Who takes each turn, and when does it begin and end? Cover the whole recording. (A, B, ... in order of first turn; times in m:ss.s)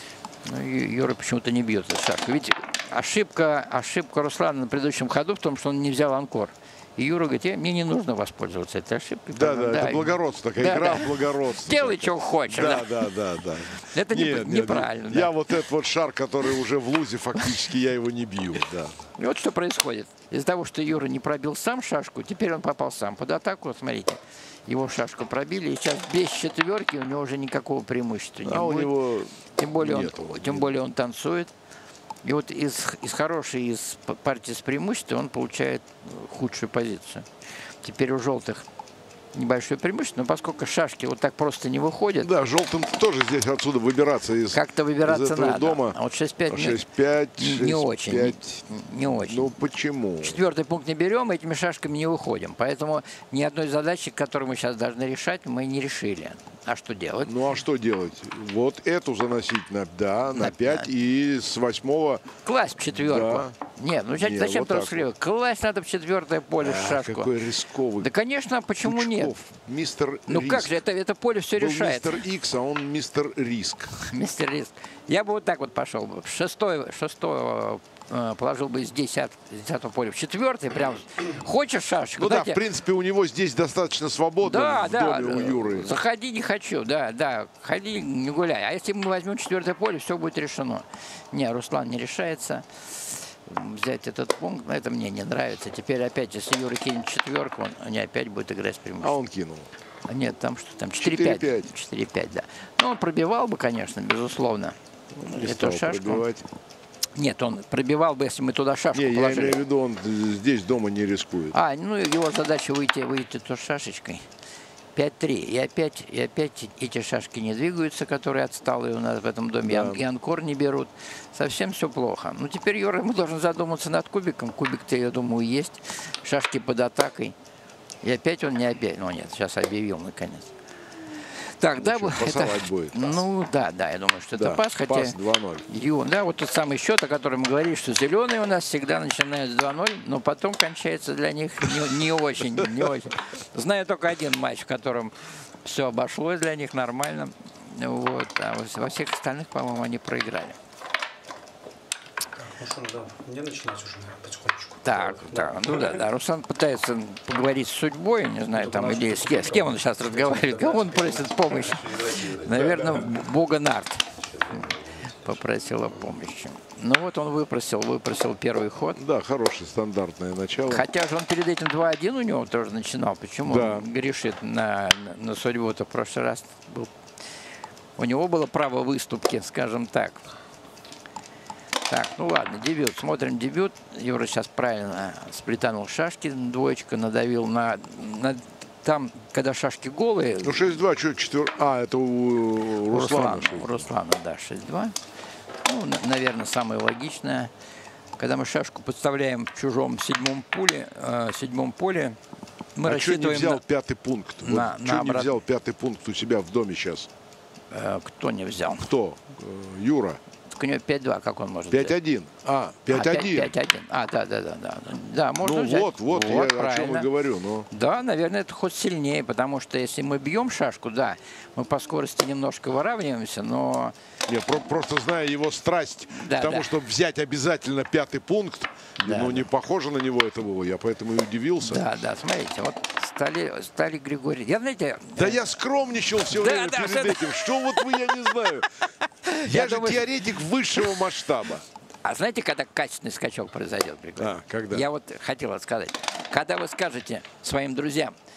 0:00.4-0:13.0 A
0:09.3-0:19.0 B
0:13.9-0:15.3 A
0:19.2-0:29.0 A
0:28.4-0:30.7 B
0:29.6-0:31.5 A
0:32.2-0:37.3 A
0:37.8-0:38.6 A
0:39.3-0:42.3 A
0:42.2-0:46.0 B
0:44.5-0:46.8 A
0:46.5-0:48.6 B
0:47.4-0:49.6 A
0:49.2-0:50.4 B
0:50.2-0:57.3 A
0:57.2-1:02.3 B
1:00.3-1:00.9 A
1:02.4-1:07.3 A
1:02.8-1:03.5 B
1:04.2-1:05.1 B
1:06.6-1:08.1 B
1:08.0-1:09.3 A
1:08.8-1:10.8 B
1:10.3-1:12.2 A
1:11.6-1:13.9 B
1:14.0-1:22.6 A
1:22.2-1:26.0 B
1:24.4-1:39.2 A
1:39.0-1:39.7 B
1:40.1-1:46.2 A
1:41.0-1:41.7 B
1:45.1-1:46.4 B
1:47.1-1:49.6 A
1:48.9-1:51.6 B
1:51.5-1:54.2 A
1:54.9-2:07.3 A
1:59.6-2:00.0 B
2:08.0-2:10.5 A
2:11.6-2:30.6 A
2:11.8-2:13.2 B
2:14.4-2:15.6 B
2:32.3-2:36.0 C
2:34.8-2:49.0 A
2:38.5-2:42.8 C
2:49.0-2:50.8 B
2:50.7-2:56.9 A
2:53.4-2:53.9 B
2:58.0-3:00.2 A
3:01.9-3:10.7 A
3:10.4-3:13.9 B
3:12.9-3:15.0 A
3:15.6-3:17.5 A
3:18.2-3:22.2 A
3:22.7-3:23.6 A
3:22.8-3:27.1 B
3:24.4-3:25.4 A
3:27.7-3:28.9 A
3:28.8-3:30.2 B
3:30.5-3:32.0 A
3:31.7-3:33.5 B
3:32.9-3:37.1 A
3:35.4-3:37.7 B
3:37.7-3:43.9 A
3:44.3-3:51.8 B
3:46.1-3:46.7 A
3:49.0-3:49.5 A
3:51.6-3:55.5 A
3:55.2-3:58.7 B
3:56.2-3:57.8 A
3:59.2-4:00.2 A
3:59.4-4:01.6 B
4:02.0-4:08.1 A
4:04.2-4:04.9 B